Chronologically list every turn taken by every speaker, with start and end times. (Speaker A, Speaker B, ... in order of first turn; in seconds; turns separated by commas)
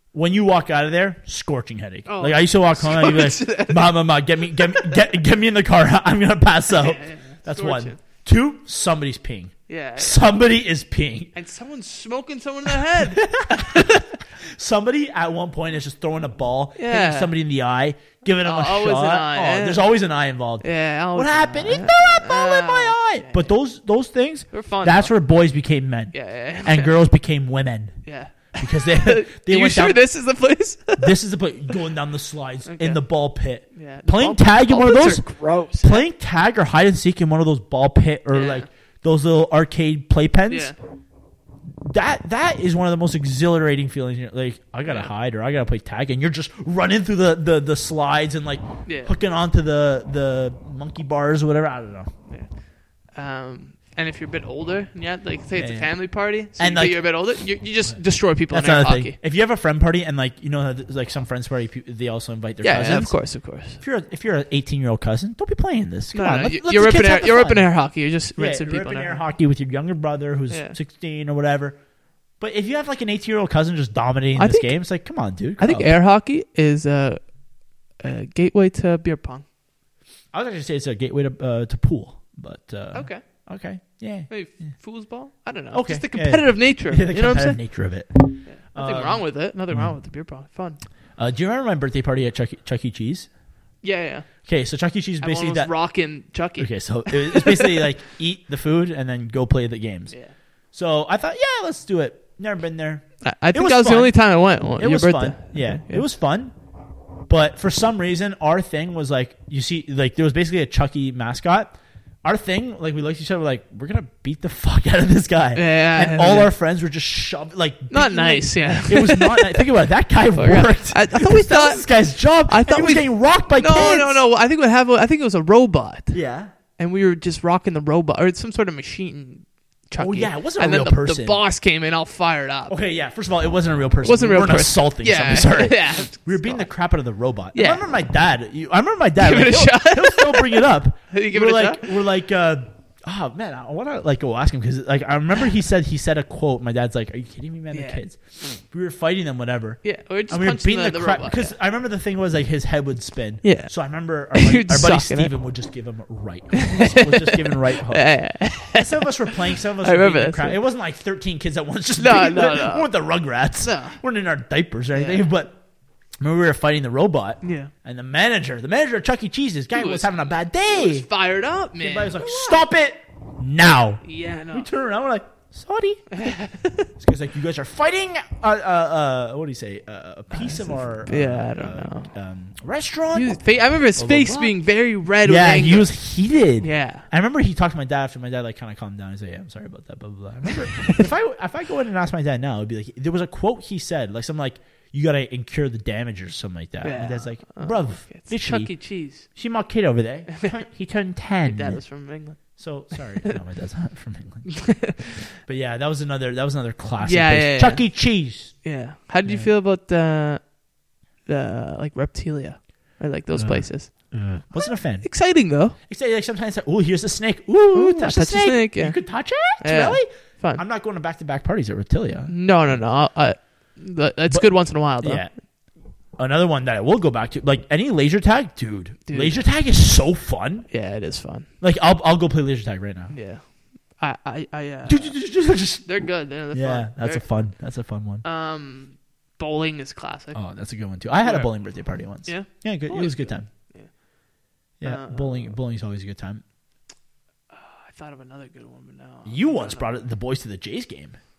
Speaker A: 0.1-11.3, Speaker B: 2.1-3.9, Speaker B: 4.5-5.0, Speaker B: 6.7-8.0, Speaker B: 9.7-10.2, Speaker B: 11.3-14.1, Speaker A: 13.0-28.0, Speaker B: 16.8-17.3, Speaker B: 18.4-19.9, Speaker B: 20.6-23.6, Speaker B: 24.5-25.1, Speaker B: 26.1-27.0, Speaker B: 28.1-31.2, Speaker A: 28.6-30.0, Speaker A: 31.0-40.7, Speaker B: 32.6-33.0, Speaker B: 33.7-36.1, Speaker B: 38.3-38.7, Speaker B: 40.5-40.8, Speaker A: 41.8-52.1, Speaker B: 44.9-45.1, Speaker B: 48.9-49.1, Speaker B: 53.0-59.2, Speaker A: 55.6-55.9, Speaker A: 56.5-57.1, Speaker A: 57.8-67.7, Speaker B: 62.6-63.8, Speaker B: 66.1-69.2, Speaker A: 68.4-71.8, Speaker B: 70.5-70.8, Speaker A: 72.4-75.9, Speaker B: 74.4-74.9, Speaker B: 75.6-77.3, Speaker B: 77.9-79.5, Speaker A: 80.3-84.7, Speaker B: 82.9-83.2, Speaker B: 84.3-87.7, Speaker A: 85.7-90.0, Speaker B: 88.4-90.8, Speaker A: 91.2-93.3, Speaker B: 93.8-94.3, Speaker A: 94.5-95.7, Speaker B: 95.2-97.9, Speaker A: 96.6-100.2, Speaker A: 100.7-104.2, Speaker B: 103.2-106.1, Speaker A: 104.8-106.5, Speaker A: 107.3-124.2, Speaker B: 115.5-116.5, Speaker B: 117.9-119.7, Speaker B: 120.3-126.2, Speaker A: 126.1-126.5, Speaker B: 126.8-132.8, Speaker A: 130.0-131.4, Speaker A: 132.7-165.6, Speaker B: 134.0-136.7, Speaker B: 137.5-137.9, Speaker B: 139.2-141.9, Speaker B: 147.7-148.0, Speaker B: 149.8-151.6, Speaker B: 153.4-153.7, Speaker B: 154.3-155.3, Speaker B: 156.5-160.6, Speaker B: 162.0-162.9, Speaker B: 163.6-164.0, Speaker B: 164.9-165.3, Speaker A: 166.2-171.1, Speaker B: 167.4-167.7, Speaker B: 169.7-172.6, Speaker A: 171.8-176.1, Speaker B: 174.0-174.7, Speaker B: 176.1-176.9, Speaker A: 177.0-184.6, Speaker B: 180.3-182.1, Speaker B: 183.1-185.9, Speaker A: 185.2-201.8, Speaker B: 186.6-187.1, Speaker B: 190.7-191.1, Speaker B: 196.8-199.3, Speaker B: 201.4-203.4, Speaker A: 202.4-204.8, Speaker B: 204.5-205.3, Speaker A: 205.4-208.7, Speaker B: 207.0-207.9, Speaker B: 208.5-210.6, Speaker A: 209.2-209.5, Speaker B: 211.2-215.8, Speaker A: 213.3-222.8, Speaker B: 217.7-220.6, Speaker B: 222.3-225.2, Speaker A: 224.3-225.4, Speaker A: 226.2-230.7, Speaker B: 229.1-229.5, Speaker B: 230.7-231.5, Speaker A: 231.6-233.1, Speaker B: 233.1-233.4, Speaker B: 234.0-237.3, Speaker A: 234.9-238.2, Speaker B: 238.2-240.4, Speaker A: 240.3-243.5, Speaker B: 241.2-243.9, Speaker A: 244.8-246.4, Speaker B: 244.8-245.6, Speaker B: 247.5-249.9, Speaker A: 249.2-251.2